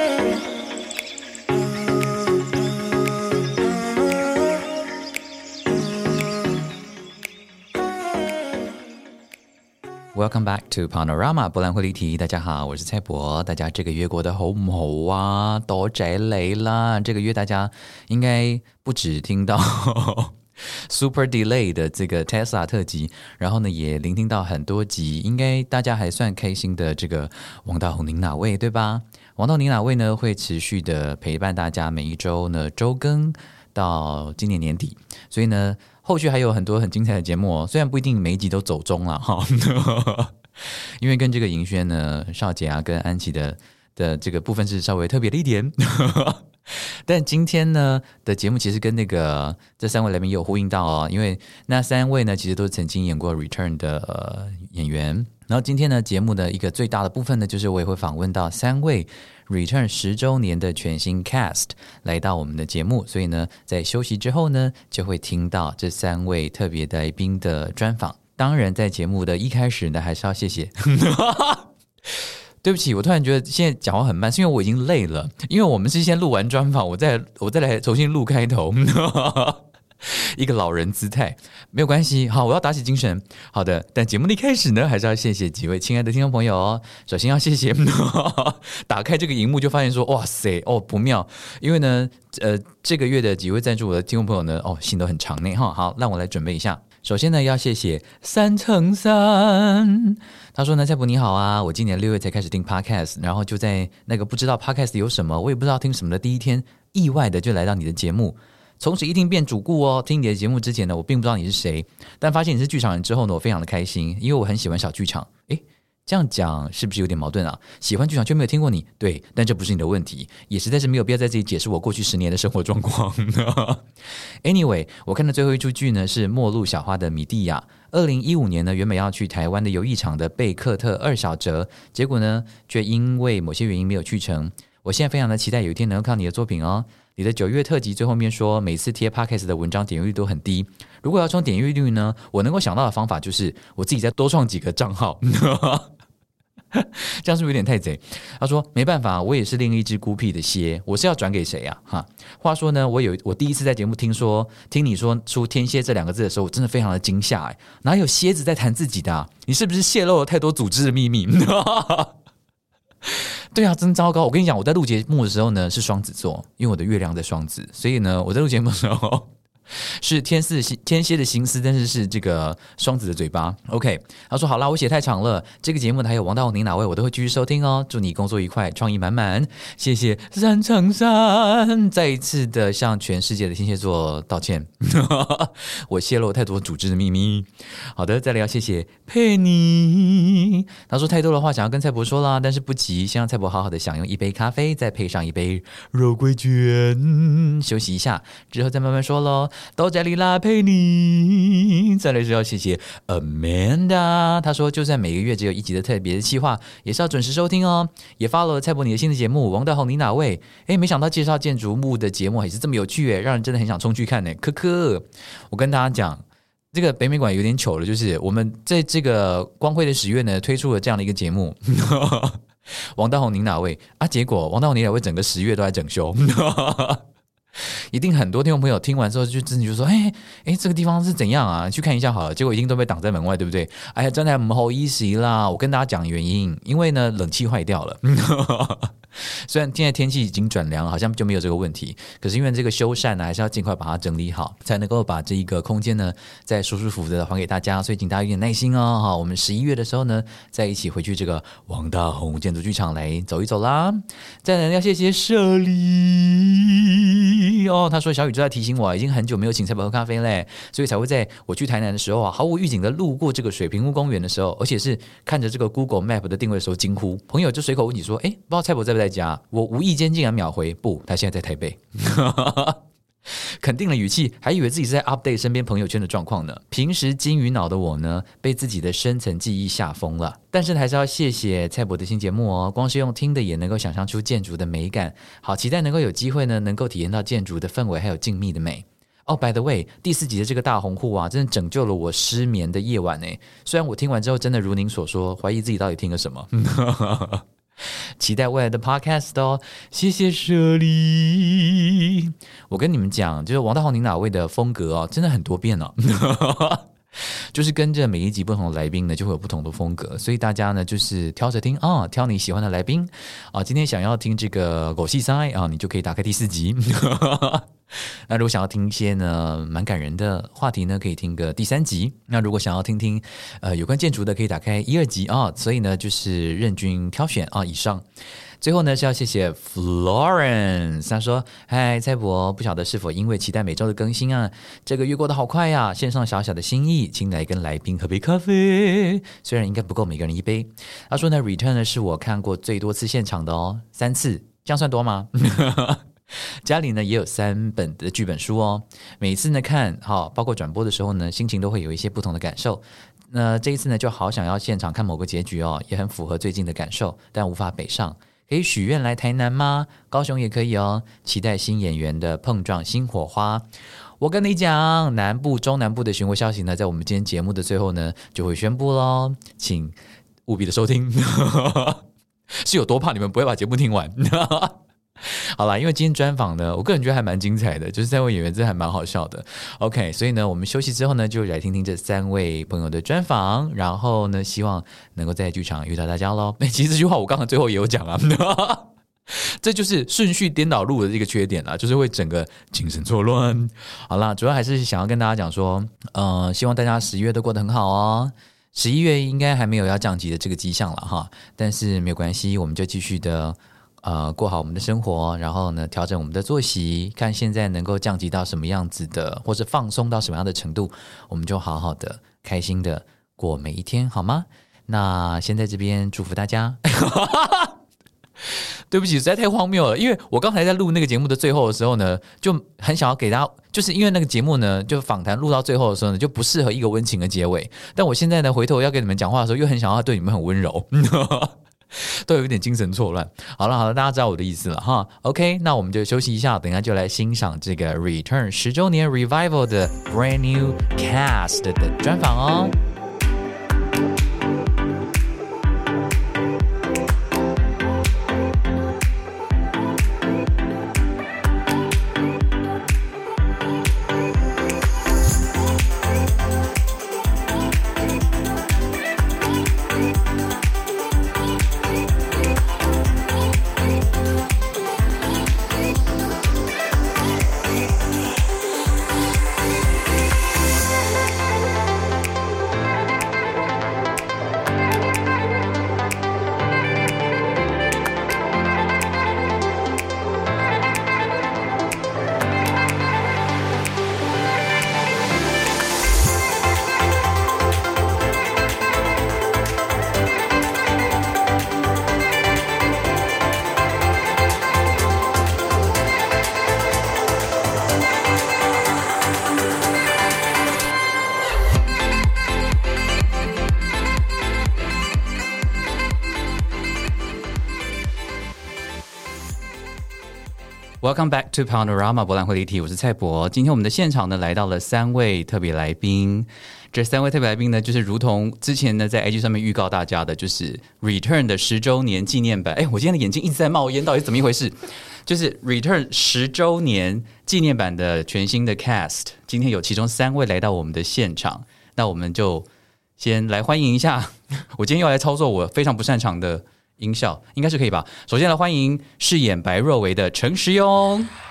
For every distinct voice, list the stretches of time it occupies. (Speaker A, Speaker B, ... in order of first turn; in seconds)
Speaker A: 10.1-20.4, 20.9-71.7, 72.2-123.8, 124.4-145.9, 146.7-162.1, 163.1-222.4, 222.9-227.0, 227.6-297.4, 298.2-328.0, 328.6-363.6, 364.2-372.0, 372.5-417.7, 418.5-442.7, 511.0-532.7, 533.2-541.3